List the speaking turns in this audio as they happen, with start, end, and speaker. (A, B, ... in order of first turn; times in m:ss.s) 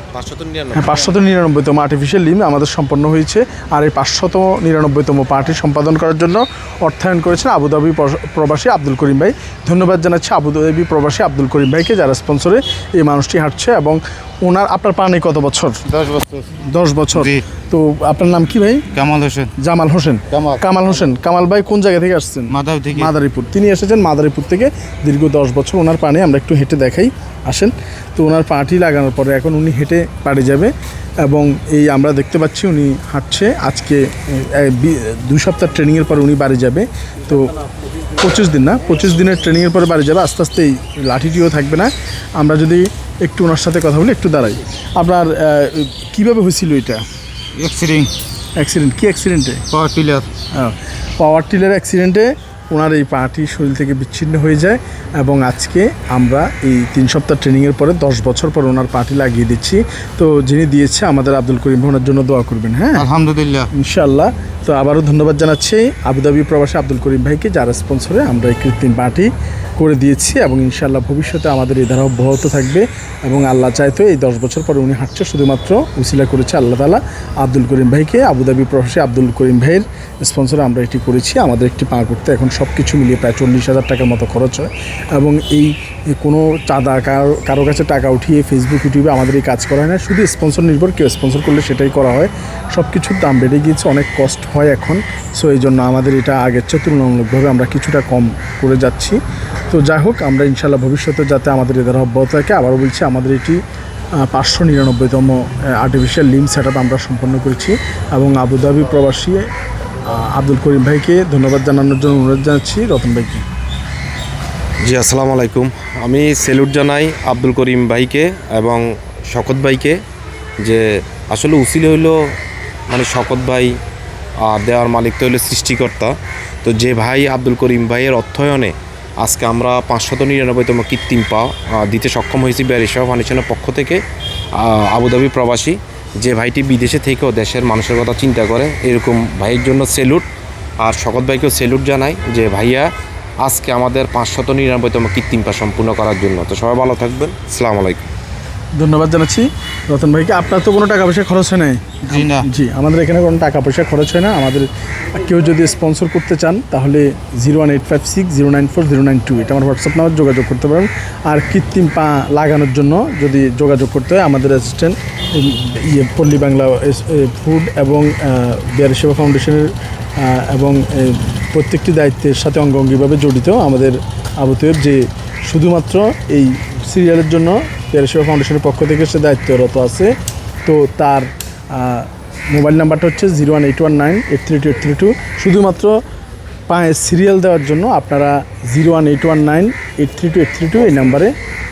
0:00.1-0:01.0 A
0:00.7-0:15.8 B
0:15.9-0:16.4 C
0:16.5-0:18.9 B
0:17.1-0:17.4 C
0:18.9-0:19.5 C
0:19.6-0:37.5 B
0:20.3-0:20.6 C
0:22.5-0:23.1 C
0:38.2-0:47.0 B
0:47.6-0:48.1 C
0:48.6-0:49.6 B
0:49.7-0:50.3 C
0:50.5-1:03.1 B
1:03.0-1:03.7 C
1:03.7-1:39.2 B
1:39.7-1:43.6 B
1:44.2-1:49.5 B
1:50.0-1:53.5 B
1:54.8-2:00.0 A
2:00.6-2:02.2 A
2:02.9-2:03.7 A
2:04.4-2:14.0 A
2:14.5-2:20.2 A
2:20.8-2:22.9 A
2:23.4-2:28.0 A
2:28.8-3:00.1 B
2:32.1-2:32.5 C
3:00.6-3:06.0 B
3:06.7-3:11.3 B